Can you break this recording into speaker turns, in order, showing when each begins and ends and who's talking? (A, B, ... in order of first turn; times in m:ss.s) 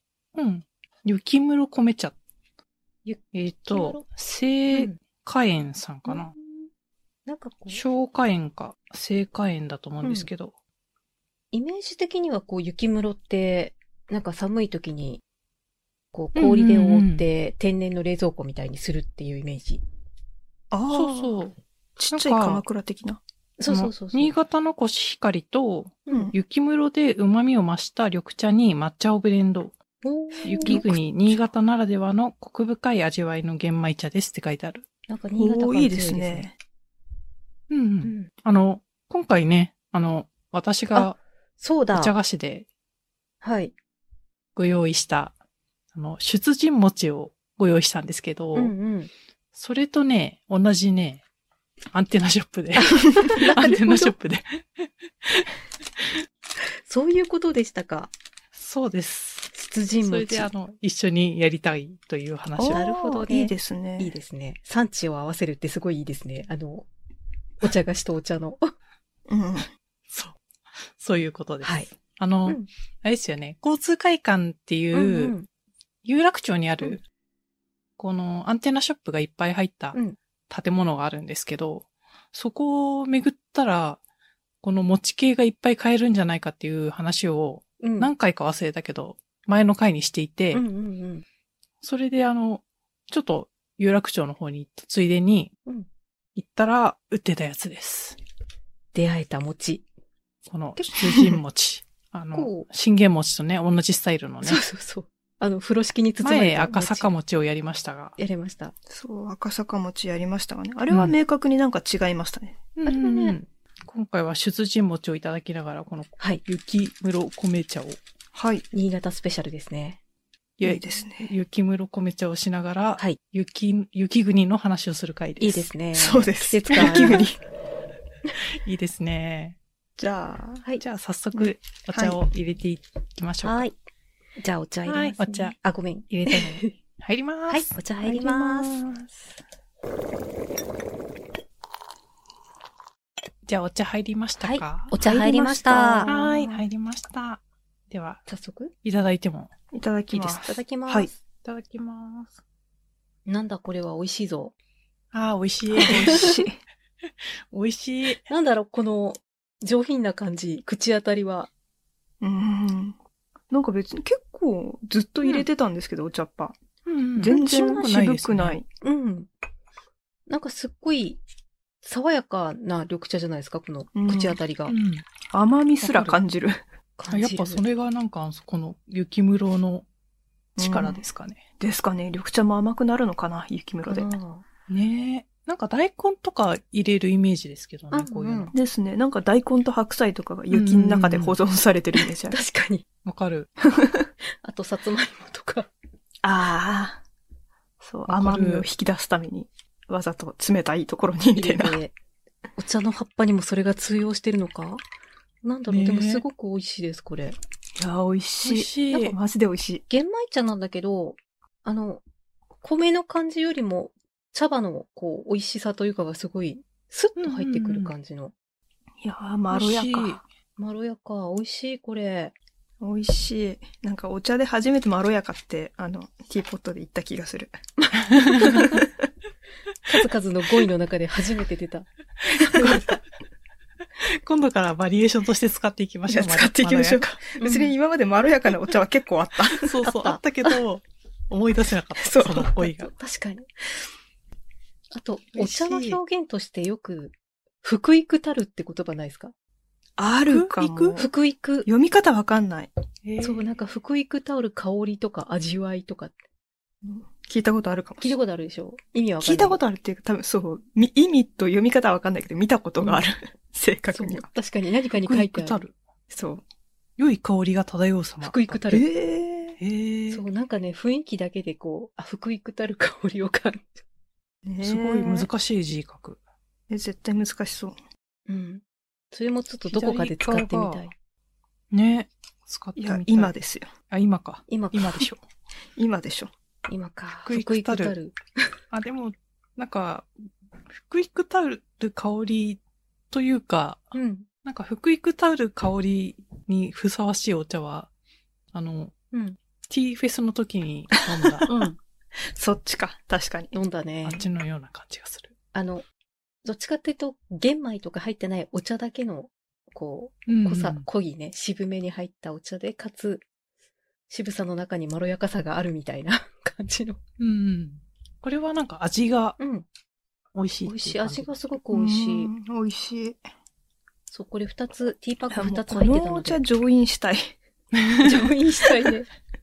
0:00.3-0:02.1 A
0:03.0-0:04.0 B
0:03.3-0:06.3 A
0:04.7-0:05.0 B
0:06.0-0:06.6 B
0:07.2-0:07.8 B
0:07.7-0:10.5 A
0:10.0-0:10.3 B
0:11.5-0:15.2 B
0:16.1-0:19.8 B
0:16.4-0:17.2 A
0:20.7-0:21.3 C
0:20.9-0:21.6 A
0:22.0-0:23.2 C
0:22.1-0:22.6 A
0:23.6-0:24.3 B
0:23.7-0:29.8 A
0:26.1-0:26.3 B
0:30.0-0:30.8 B
0:30.4-0:34.8 A
0:30.5-0:31.4 C
0:35.1-0:36.5 B
0:35.4-0:36.6 C
0:37.7-0:41.2 A
0:38.0-0:38.3 B
0:40.9-0:42.1 B
0:41.9-0:42.6 A
0:43.4-0:43.7 B
0:44.6-0:45.3 A
0:45.9-0:48.7 A
0:48.5-0:49.1 B
0:49.5-0:51.2 A
0:51.9-0:55.5 A
0:52.8-0:54.1 B
0:56.8-0:58.1 B
0:58.5-0:59.5 A
0:59.5-1:00.5 B
1:00.0-1:02.8 A
1:02.6-1:04.1 C
1:02.7-1:06.9 B
1:07.6-1:08.7 B
1:09.3-1:09.7 C
1:10.1-1:10.4 A
1:10.9-1:15.3 A
1:11.6-1:11.9 B
1:14.9-1:15.5 B
1:16.0-1:17.0 A
1:18.0-1:20.0 A
1:20.5-1:24.0 A
1:24.6-1:30.6 A
1:27.8-1:28.1 B
1:30.5-1:31.2 B
1:31.8-1:35.5 A
1:36.4-1:38.2 A
1:38.9-1:39.8 B
1:40.5-1:44.6 A
1:41.1-1:41.4 C
1:42.3-1:42.7 B
1:44.4-1:47.1 B
1:46.2-1:48.2 A
1:48.2-1:48.7 B
1:48.9-1:52.6 C
1:50.9-1:51.1 A
1:52.8-1:58.0 A
1:52.8-1:53.4 B
1:58.3-1:58.6 C
1:58.7-2:00.0 B
2:00.6-2:05.7 A
2:00.6-2:01.3 C
2:05.4-2:07.3 B
2:06.0-2:07.3 C
2:06.8-2:07.2 A
2:08.4-2:09.6 A
2:10.0-2:10.6 C
2:10.8-2:13.6 A
2:11.3-2:12.2 C
2:13.4-2:13.7 B
2:14.4-2:16.7 B
2:14.8-2:15.5 A
2:16.1-2:17.7 A
2:17.5-2:18.8 B
2:18.0-2:19.3 C
2:23.4-2:24.9 A
2:24.4-2:26.1 B
2:25.0-2:26.6 C
2:26.0-2:28.2 A
2:28.3-2:28.7 B
2:28.8-2:29.5 A
2:29.7-2:31.1 C
2:30.2-2:31.1 B
2:31.4-2:32.4 A
2:33.3-2:34.5 B
2:35.1-2:36.4 A
2:35.8-2:36.6 C
2:35.8-2:36.3 B
2:37.2-2:38.2 A
2:38.3-2:41.5 B
2:42.2-2:43.0 C
2:43.5-2:46.6 C
2:46.8-2:48.6 A
2:47.1-2:48.7 C
2:47.3-2:47.9 B
2:48.8-2:49.3 B
2:50.3-2:51.2 B
2:51.8-2:54.7 B
2:53.9-2:54.4 C
2:54.7-2:55.0 A
2:55.3-2:56.6 C
2:55.8-2:56.2 A
2:57.0-2:57.6 B
2:57.1-2:59.8 A
3:00.6-3:01.0 C
3:00.6-3:01.4 A
3:01.6-3:04.1 C
3:03.8-3:04.4 B
3:04.7-3:08.5 A
3:07.9-3:08.5 B
3:08.5-3:12.4 C
3:10.5-3:11.4 A
3:12.2-3:12.8 B
3:13.0-3:13.5 A
3:13.7-3:14.1 C
3:14.4-3:15.7 B
3:16.2-3:17.0 C
3:17.8-3:21.8 C
3:18.1-3:18.6 A
3:21.3-3:21.9 B
3:22.6-3:24.8 B
3:25.4-3:27.4 B
3:25.7-3:26.2 A
3:27.8-3:29.8 C
3:28.4-3:29.2 A
3:29.9-3:32.0 B
3:32.6-3:38.3 B
3:37.2-3:37.9 A
3:39.0-3:40.2 C
3:39.5-3:40.2 A
3:40.6-3:42.3 B
3:42.8-3:47.5 C
3:47.8-3:48.8 B
3:48.5-3:48.8 C
3:49.8-3:53.0 B
3:52.5-3:52.8 A
3:54.0-3:57.2 A
3:56.1-3:59.7 C
3:57.4-3:57.7 B
3:59.5-4:02.9 A
3:59.8-4:00.2 B
4:02.0-4:02.6 C
4:02.8-4:03.5 B
4:04.9-4:09.3 B
4:05.4-4:06.0 A
4:10.0-4:11.1 C
4:10.3-4:11.0 A
4:11.0-4:11.7 B
4:11.6-4:12.7 C
4:13.0-4:13.5 A
4:13.2-4:16.1 B
4:16.8-4:18.2 C
4:18.0-4:19.6 B
4:19.2-4:24.3 C
4:23.9-4:25.6 B
4:25.0-4:25.7 A
4:26.1-4:26.4 C
4:27.0-4:28.6 A
4:28.2-4:28.8 B
4:28.7-4:29.6 C
4:29.6-4:30.2 A
4:30.1-4:33.8 B
4:34.4-4:35.3 C
4:34.6-4:36.2 A
4:36.7-4:37.8 C
4:38.3-4:40.9 B
4:39.7-4:40.8 A
4:41.7-4:43.3 A
4:42.8-4:43.7 C
4:43.9-4:45.2 A
4:44.5-4:45.1 B
4:45.8-4:46.3 C
4:46.7-4:48.5 B
4:47.2-4:47.9 A
4:48.7-4:50.1 A
4:50.7-4:52.6 A
4:53.1-4:53.9 A
4:53.9-4:54.3 B
4:54.4-4:57.9 A
4:58.5-4:58.9 A
4:59.1-4:59.4 B
4:59.7-5:01.5 A
5:01.4-5:03.5 C
5:01.5-5:01.7 B
5:03.5-5:04.2 B
5:04.0-5:05.3 A
5:05.5-5:05.8 B
5:06.4-5:13.2 B
5:10.3-5:10.9 A
5:14.1-5:17.0 B
5:17.2-5:19.4 A
5:19.4-5:19.6 B
5:20.3-5:21.3 A
5:20.6-5:22.3 B
5:21.7-5:23.2 C
5:24.1-5:26.4 B
5:25.3-5:27.3 C
5:27.7-5:28.2 A
5:28.0-5:29.1 B